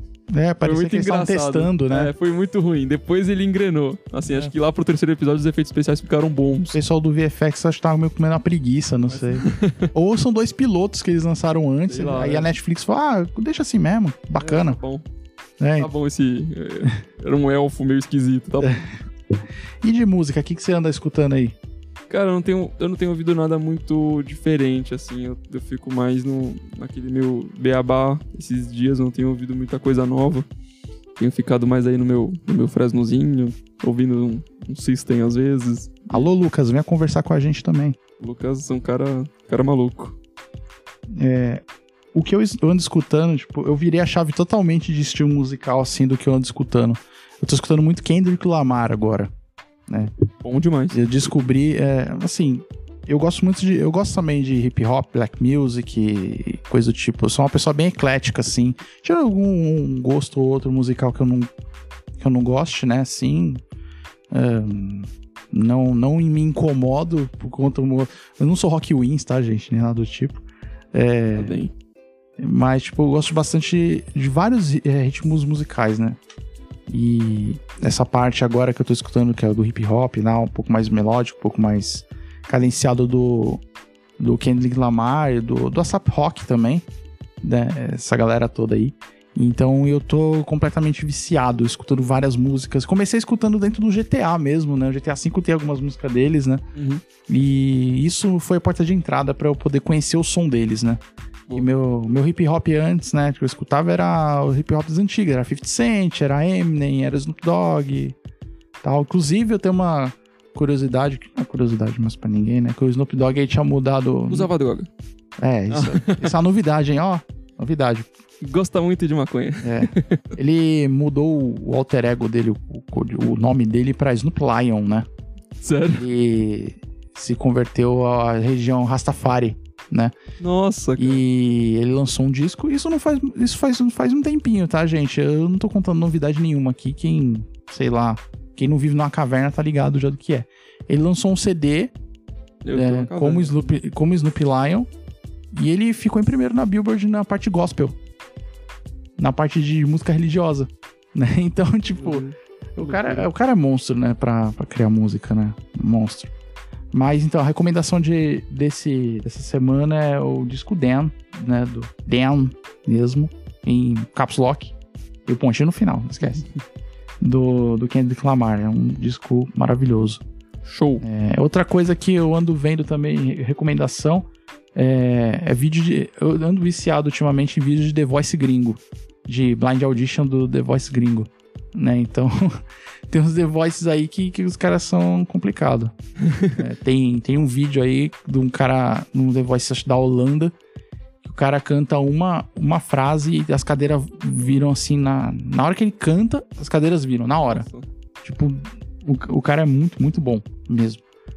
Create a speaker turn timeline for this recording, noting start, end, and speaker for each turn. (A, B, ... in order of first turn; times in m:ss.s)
0:00.3-0:02.1 A
0:00.6-0:06.8 B
0:04.2-0:04.5 A
0:06.7-0:14.8 A
0:09.1-0:09.9 B
0:11.9-0:12.5 B
0:14.4-0:15.0 B
0:15.6-0:15.9 A
0:15.8-0:18.9 B
0:19.8-0:21.5 A
0:22.1-0:30.4 B
0:31.2-0:36.3 B
0:36.1-0:38.0 A
0:38.2-0:40.2 B
0:41.2-0:41.6 A
0:42.1-0:49.3 A
0:50.4-0:51.3 B
0:50.9-1:01.5 A
1:02.2-1:03.6 A
1:04.3-1:11.6 A
1:11.3-1:11.7 B
1:12.4-1:16.2 A
1:16.9-1:23.6 A
1:24.2-1:26.8 A
1:27.4-1:36.6 A
1:36.7-1:37.0 B
1:37.3-1:41.0 A
1:41.5-1:48.2 A
1:48.8-1:54.5 A
1:54.3-1:54.9 B
1:55.4-1:58.1 A
1:55.7-1:56.3 B
1:58.4-2:00.2 B
1:59.6-2:05.0 A
2:05.6-2:06.1 B
2:05.9-2:10.1 A
2:10.4-2:11.2 B
2:11.0-2:21.9 A
2:22.6-2:23.7 B
2:22.7-2:24.9 A
2:25.5-2:27.9 A
2:29.2-2:36.3 A
2:32.0-2:33.3 B
2:36.9-2:44.7 A
2:45.2-2:46.4 A
2:47.2-2:50.2 A
2:50.6-2:51.0 B
2:51.0-3:05.9 A
3:06.5-3:10.5 A
3:11.2-3:17.7 A
3:17.5-3:17.9 B
3:18.2-3:21.0 A